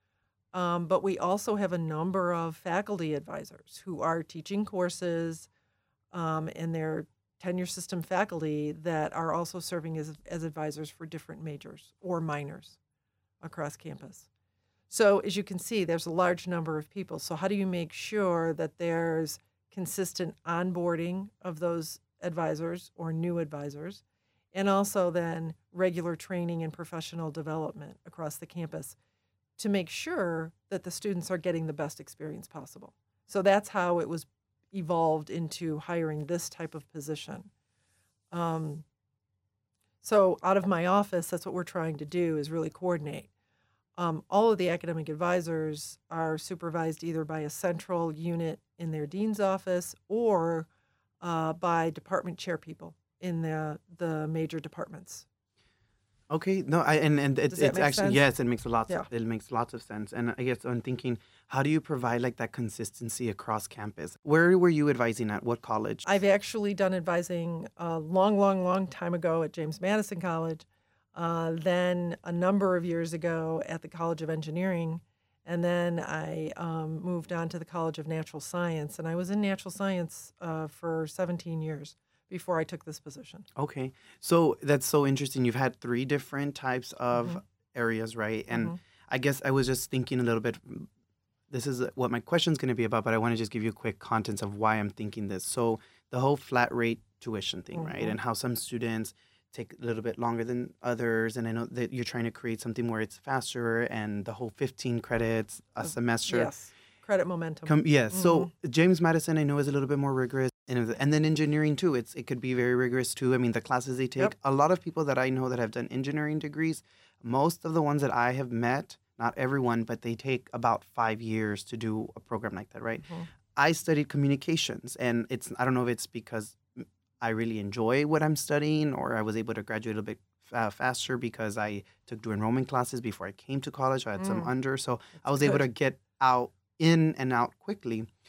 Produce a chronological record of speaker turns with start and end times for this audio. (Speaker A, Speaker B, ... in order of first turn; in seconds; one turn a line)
Speaker A: 0.5-5.5
Speaker A: 6.1-12.8
Speaker A: 13.4-14.3
Speaker A: 14.9-29.0
Speaker A: 29.6-37.5
Speaker A: 38.3-38.9
Speaker A: 40.0-43.3
Speaker A: 44.0-50.7
Speaker A: 51.2-55.2
Speaker B: 56.3-66.1
Speaker A: 57.5-58.2
Speaker A: 66.0-83.5
Speaker B: 83.5-90.9
Speaker A: 88.5-88.8
Speaker B: 91.5-106.5
Speaker A: 97.8-98.2
Speaker A: 105.8-108.5
Speaker B: 107.7-138.1
Speaker A: 134.2-134.5
Speaker A: 135.3-135.6